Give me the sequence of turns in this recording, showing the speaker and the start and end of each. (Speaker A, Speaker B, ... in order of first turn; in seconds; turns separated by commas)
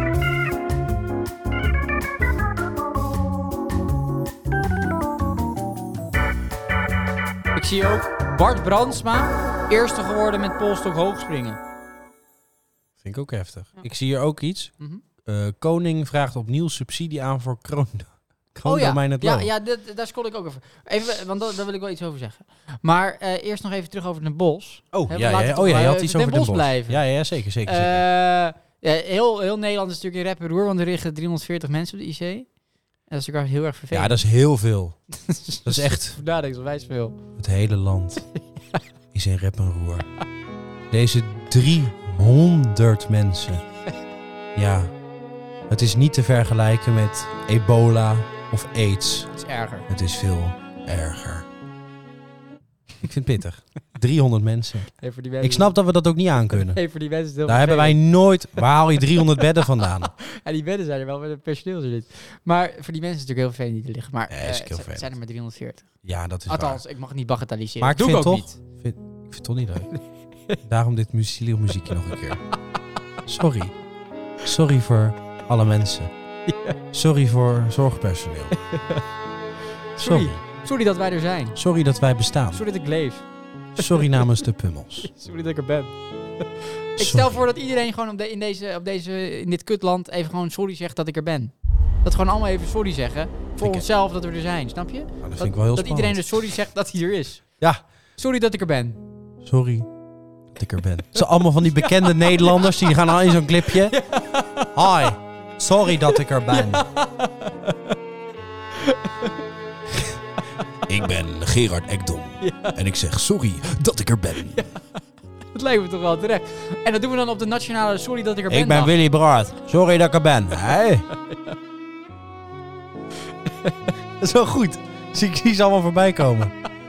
Speaker A: 7.5-11.6, Speaker B: 13.0-14.7, Speaker B: 15.2-19.5, Speaker A: 18.6-27.0, Speaker B: 24.9-28.0, Speaker A: 27.6-32.5, Speaker A: 33.1-34.2, Speaker B: 33.9-35.0, Speaker A: 35.1-37.2, Speaker B: 35.6-36.2, Speaker B: 37.4-38.3, Speaker B: 39.1-40.1, Speaker B: 40.9-43.6, Speaker B: 44.5-44.9, Speaker B: 45.7-49.3, Speaker A: 49.3-49.9, Speaker B: 49.9-51.5, Speaker B: 53.0-56.8, Speaker A: 55.0-55.7, Speaker A: 56.5-58.0, Speaker B: 57.5-60.1, Speaker A: 59.1-65.9, Speaker B: 64.3-65.1, Speaker B: 66.0-66.8, Speaker A: 66.5-68.6, Speaker B: 67.8-69.9, Speaker A: 69.9-70.6, Speaker B: 70.6-72.4, Speaker B: 73.2-73.7, Speaker B: 74.4-76.1, Speaker A: 76.5-76.8, Speaker B: 76.9-78.5, Speaker A: 78.5-79.0, Speaker A: 80.0-81.5, Speaker B: 80.0-80.4, Speaker B: 81.5-82.6, Speaker A: 82.5-83.2, Speaker A: 83.8-84.4, Speaker B: 83.8-85.1, Speaker A: 85.0-85.9, Speaker A: 86.6-91.5, Speaker B: 87.0-87.4, Speaker A: 92.0-97.4, Speaker B: 93.6-93.8, Speaker B: 95.2-96.4, Speaker A: 98.2-99.0, Speaker B: 99.4-99.9, Speaker B: 100.5-104.0, Speaker A: 101.7-105.1, Speaker B: 104.7-106.9, Speaker A: 106.1-107.9, Speaker A: 108.7-109.3, Speaker B: 110.9-114.6, Speaker A: 112.4-112.8, Speaker A: 114.5-115.0, Speaker A: 115.5-118.9, Speaker B: 118.5-121.0, Speaker A: 121.2-121.5, Speaker A: 123.5-123.7, Speaker B: 124.2-126.5